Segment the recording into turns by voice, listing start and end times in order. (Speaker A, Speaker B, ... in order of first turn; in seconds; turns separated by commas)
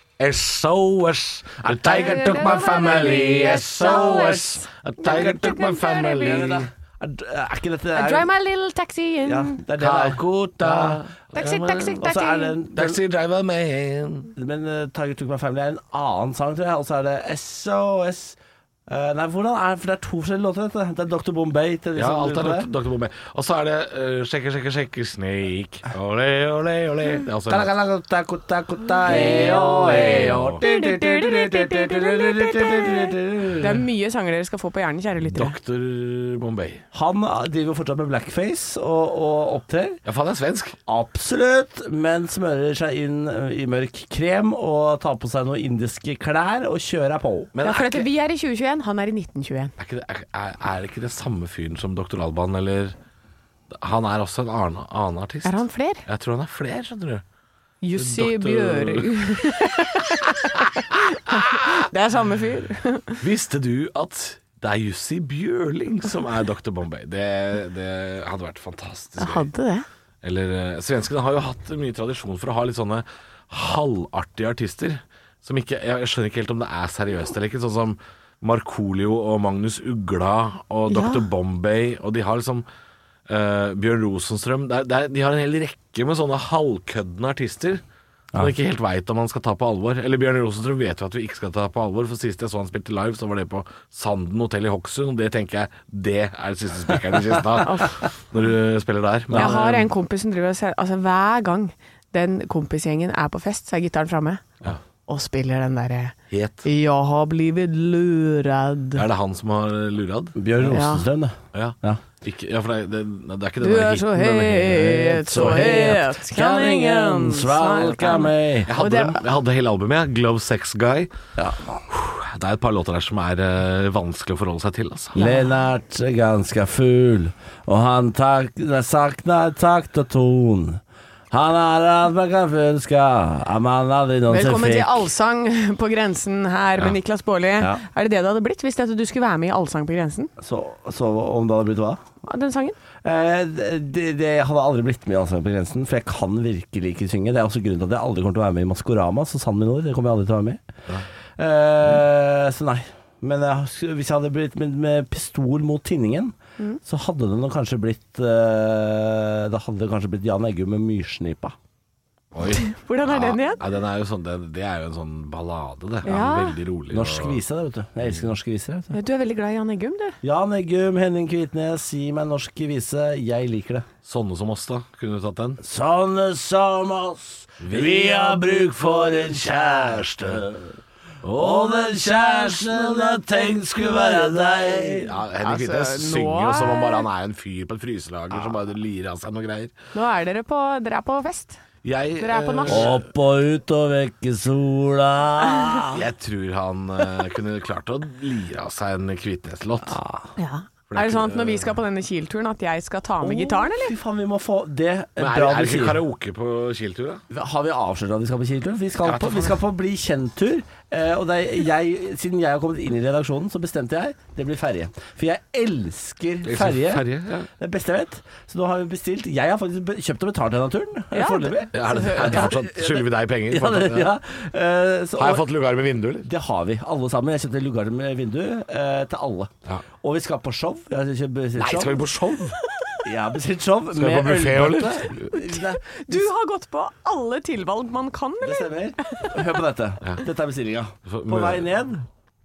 Speaker A: 0.2-6.7, Speaker B: 1.6-4.5, Speaker C: 1.8-6.6, Speaker B: 6.2-8.3, Speaker C: 7.9-9.6, Speaker B: 9.2-11.1, Speaker A: 9.8-12.0, Speaker C: 11.3-12.6, Speaker B: 12.0-13.0, Speaker A: 12.7-14.3, Speaker B: 14.3-22.7, Speaker A: 21.9-27.7, Speaker B: 27.5-33.8, Speaker A: 29.0-30.6, Speaker C: 29.0-35.5, Speaker A: 35.2-36.8, Speaker B: 36.9-40.0, Speaker A: 40.0-40.8, Speaker B: 40.9-47.5, Speaker A: 47.5-48.1, Speaker C: 47.6-49.7, Speaker A: 49.8-52.9, Speaker A: 53.7-57.2, Speaker C: 55.4-56.0, Speaker C: 57.8-63.2, Speaker A: 58.0-59.3, Speaker A: 61.3-61.9, Speaker A: 63.2-69.5, Speaker C: 69.2-69.8, Speaker A: 70.2-82.7, Speaker C: 80.9-81.2, Speaker A: 83.3-87.8, Speaker A: 88.3-99.9, Speaker C: 97.6-98.0, Speaker B: 99.3-99.6, Speaker C: 99.3-104.4, Speaker C: 105.1-109.0, Speaker A: 106.3-106.6, Speaker A: 108.9-110.3, Speaker B: 110.3-112.0, Speaker C: 110.6-111.0, Speaker A: 111.5-115.8, Speaker C: 113.6-119.2, Speaker B: 114.7-118.7, Speaker A: 118.7-121.1, Speaker B: 121.4-121.8, Speaker A: 121.9-125.2, Speaker C: 125.2-125.6, Speaker B: 125.2-135.0, Speaker C: 134.3-140.3, Speaker B: 140.4-142.0, Speaker C: 142.2-142.8, Speaker B: 143.0-150.6, Speaker B: 151.4-161.5, Speaker A: 162.3-167.4, Speaker C: 162.6-163.6, Speaker C: 166.0-166.6, Speaker B: 166.9-168.9, Speaker A: 168.0-168.3, Speaker C: 168.9-170.2, Speaker B: 170.2-173.9, Speaker A: 174.0-175.6, Speaker B: 175.6-185.1, Speaker A: 177.6-178.7, Speaker A: 179.4-180.4, Speaker A: 181.3-189.7, Speaker C: 185.4-187.1, Speaker C: 189.9-191.6, Speaker A: 191.8-193.0, Speaker C: 192.2-193.0, Speaker B: 192.7-196.1, Speaker A: 195.9-200.0, Speaker B: 199.8-200.3, Speaker C: 200.4-204.0, Speaker A: 200.9-201.7, Speaker B: 203.2-206.0, Speaker A: 205.2-207.2, Speaker B: 207.3-217.1, Speaker A: 209.0-209.6, Speaker A: 216.4-217.5, Speaker B: 217.6-225.4, Speaker C: 221.1-222.5, Speaker A: 221.7-224.1, Speaker A: 225.2-226.3, Speaker B: 226.2-232.0, Speaker A: 231.6-232.6, Speaker C: 232.7-233.0, Speaker B: 233.0-236.2, Speaker A: 233.9-235.3, Speaker C: 235.3-239.4, Speaker B: 238.4-242.1, Speaker A: 241.1-241.7